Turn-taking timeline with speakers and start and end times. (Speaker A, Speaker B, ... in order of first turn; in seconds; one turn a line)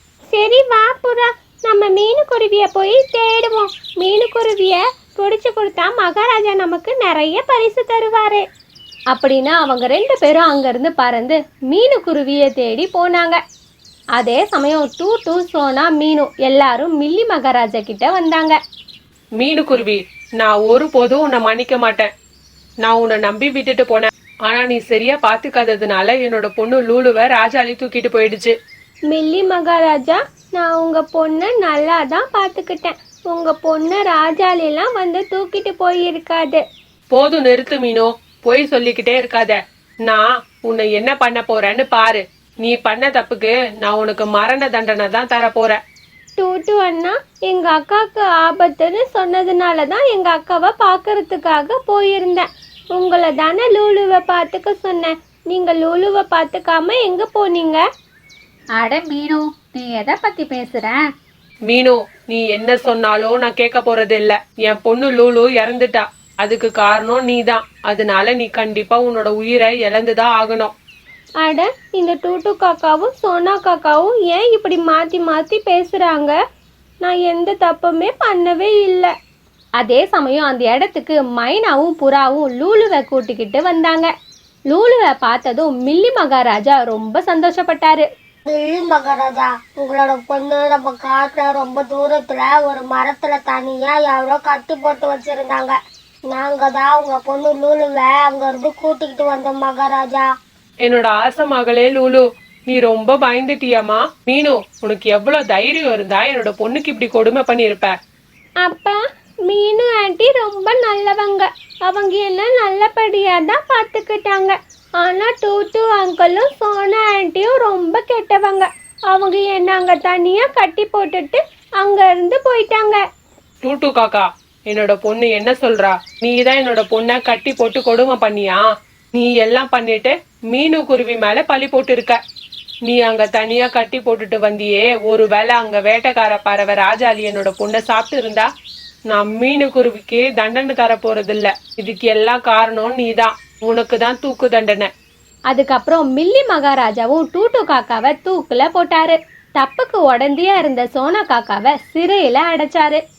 Speaker A: 0.3-8.4
Speaker A: 9.1-13.4
Speaker A: 14.2-18.6
Speaker B: 19.4-22.1
Speaker B: 22.8-28.5
Speaker A: 29.1-36.6
Speaker B: 37.1-45.8
Speaker A: 46.4-57.8
Speaker C: 58.8-61.0
Speaker B: 61.7-70.7
Speaker A: 71.4-76.3
Speaker A: 77.0-79.1
Speaker A: 79.8-84.1
Speaker A: 84.7-88.0
Speaker D: 88.5-95.8
Speaker D: 96.3-100.3
Speaker B: 100.8-107.9
Speaker A: 108.6-123.0
Speaker B: 123.6-128.6
Speaker B: 129.2-132.2
Speaker B: 132.8-138.5
Speaker B: 139.1-144.9
Speaker A: 145.5-153.0